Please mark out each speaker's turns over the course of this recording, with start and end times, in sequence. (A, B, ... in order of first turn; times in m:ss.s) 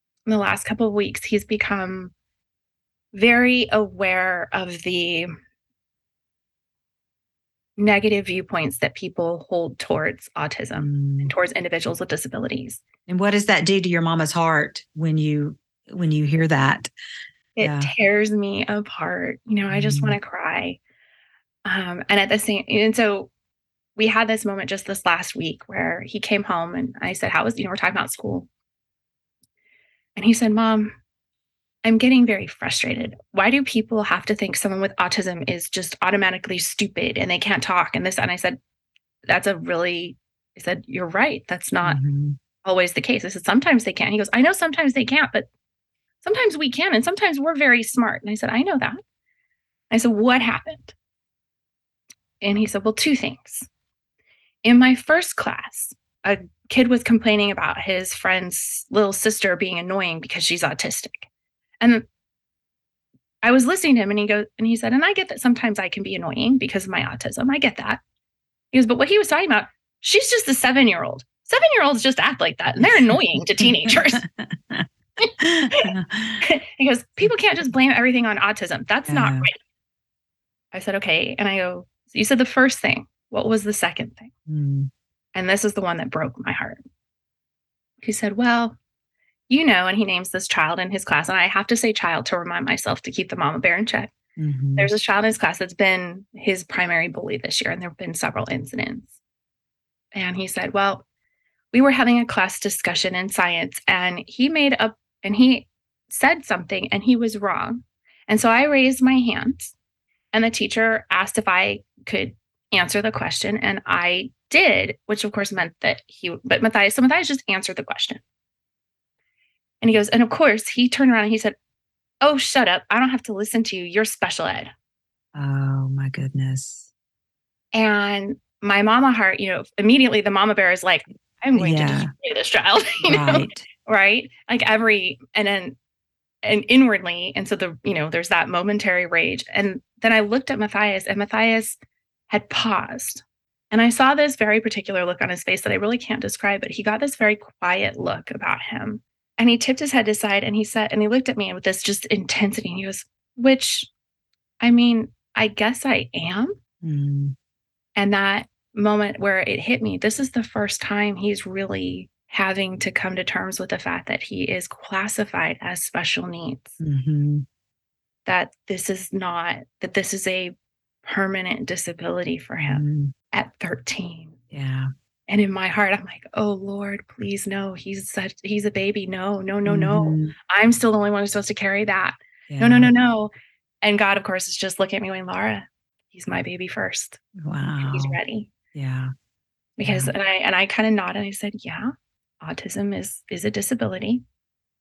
0:00.3-0:02.1 A
0:03.1-0:05.3 A
0:07.8-0:12.8 A
0:10.8-0:11.3 B
0:13.1-0:16.9 B
0:17.6-0:20.8 A
0:17.6-0:17.9 B
0:19.7-0:20.1 B
0:21.6-0:23.3 A
0:24.0-0:28.5 A
0:30.2-0:31.0 A
0:31.8-0:38.6 A
0:39.3-0:42.0 A
0:41.8-0:42.4 B
0:42.6-0:45.5 A
0:46.2-0:49.0 A
0:49.9-0:50.9 A
0:52.4-0:53.7 A
0:54.6-1:01.3 A
1:03.4-1:08.0 A
1:08.7-1:14.2 A
1:13.6-1:14.9 B
1:15.2-1:15.9 A
1:15.4-1:16.4 B
1:16.4-1:19.5 A
1:19.1-1:19.5 B
1:20.7-1:24.3 A
1:24.5-1:24.9 B
1:25.3-1:26.8 A
1:28.0-1:28.8 A
1:29.5-1:34.1 A
1:34.4-1:34.9 B
1:34.8-1:39.1 A
1:40.1-1:41.0 A
1:41.7-1:49.7 A
1:50.3-1:58.2 A
1:59.8-2:01.6 A
2:02.2-2:04.7 A
2:05.3-2:06.9 B
2:07.7-2:15.8 A
2:11.6-2:12.1 B
2:13.0-2:13.6 B
2:16.4-2:21.8 A
2:22.3-2:33.9 A
2:34.6-2:36.6 A
2:36.8-2:37.3 B
2:38.0-2:46.8 A
2:46.8-2:47.4 B
2:48.2-2:50.5 A
2:51.0-2:54.4 A
2:52.6-2:53.1 B
2:54.5-2:54.9 B
2:55.3-3:07.2 A
2:59.6-3:00.3 B
3:02.5-3:02.9 B
3:07.4-3:08.2 B
3:07.8-3:08.5 A
3:08.7-3:09.1 B
3:09.8-3:14.2 A
3:09.8-3:10.1 B